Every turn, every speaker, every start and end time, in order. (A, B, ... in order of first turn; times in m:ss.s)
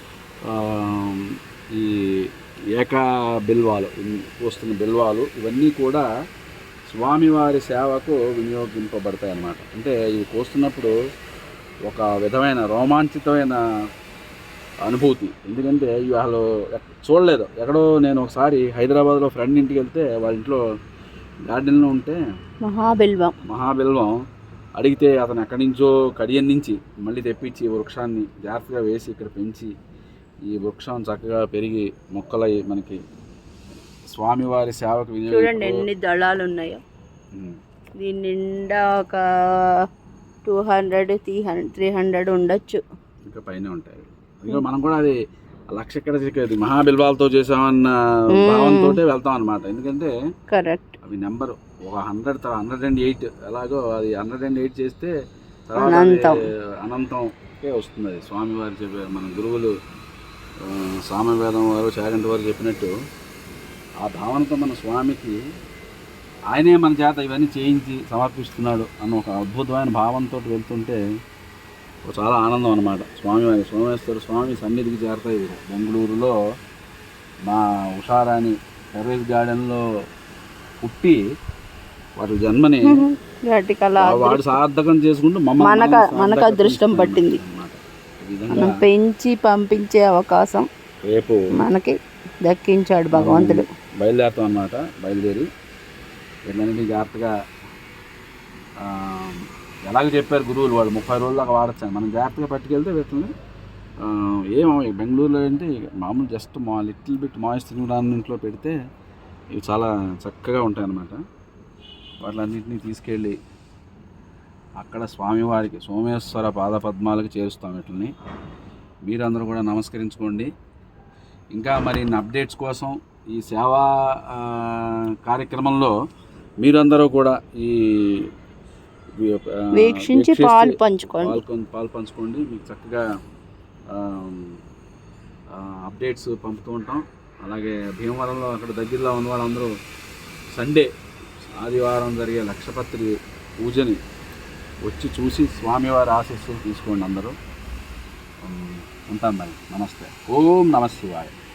0:00.5-0:02.0 A
0:02.8-0:06.0 A
0:06.9-0:10.9 A
0:11.9-0:13.6 A
0:14.8-0:20.6 A
0:21.5-0:22.2 A
0:22.6-0:23.3 B
0:23.5-0:24.1 A
0:24.8-0:29.7 A
0:30.5-0:33.0 A
0:34.1-0:35.8 A
0:35.3-0:36.8 B
0:38.0-0:39.2 B
0:40.4-0:42.8 B
0:43.3-0:45.2 A
0:45.7-0:50.1 A
0:48.4-0:49.0 B
0:50.5-0:51.0 B
0:51.0-0:55.1 A
0:55.7-0:59.7 A
0:55.8-0:56.4 B
1:00.6-1:02.9 A
1:04.0-1:05.4 A
1:06.5-1:11.0 A
1:12.1-1:16.4 A
1:17.5-1:19.8 A
1:20.8-1:21.2 A
1:22.2-1:23.0 A
1:22.9-1:24.4 B
1:24.0-1:28.8 A
1:25.6-1:27.4 B
1:28.5-1:30.7 B
1:31.1-1:31.4 A
1:31.6-1:31.9 B
1:32.4-1:33.6 B
1:33.1-1:35.5 A
1:36.5-1:37.3 A
1:38.8-1:43.3 A
1:44.0-1:48.8 A
1:49.6-1:51.2 A
1:52.2-1:53.4 A
1:54.8-1:58.1 A
1:59.1-2:00.5 A
2:01.6-2:05.9 A
2:06.6-2:08.3 A
2:09.2-2:13.0 A
2:09.8-2:11.4 B
2:13.9-2:14.5 A
2:15.5-2:19.7 A
2:20.6-2:20.9 A
2:21.6-2:23.1 A
2:23.6-2:24.0 A
2:24.8-2:27.3 A
2:28.4-2:31.3 A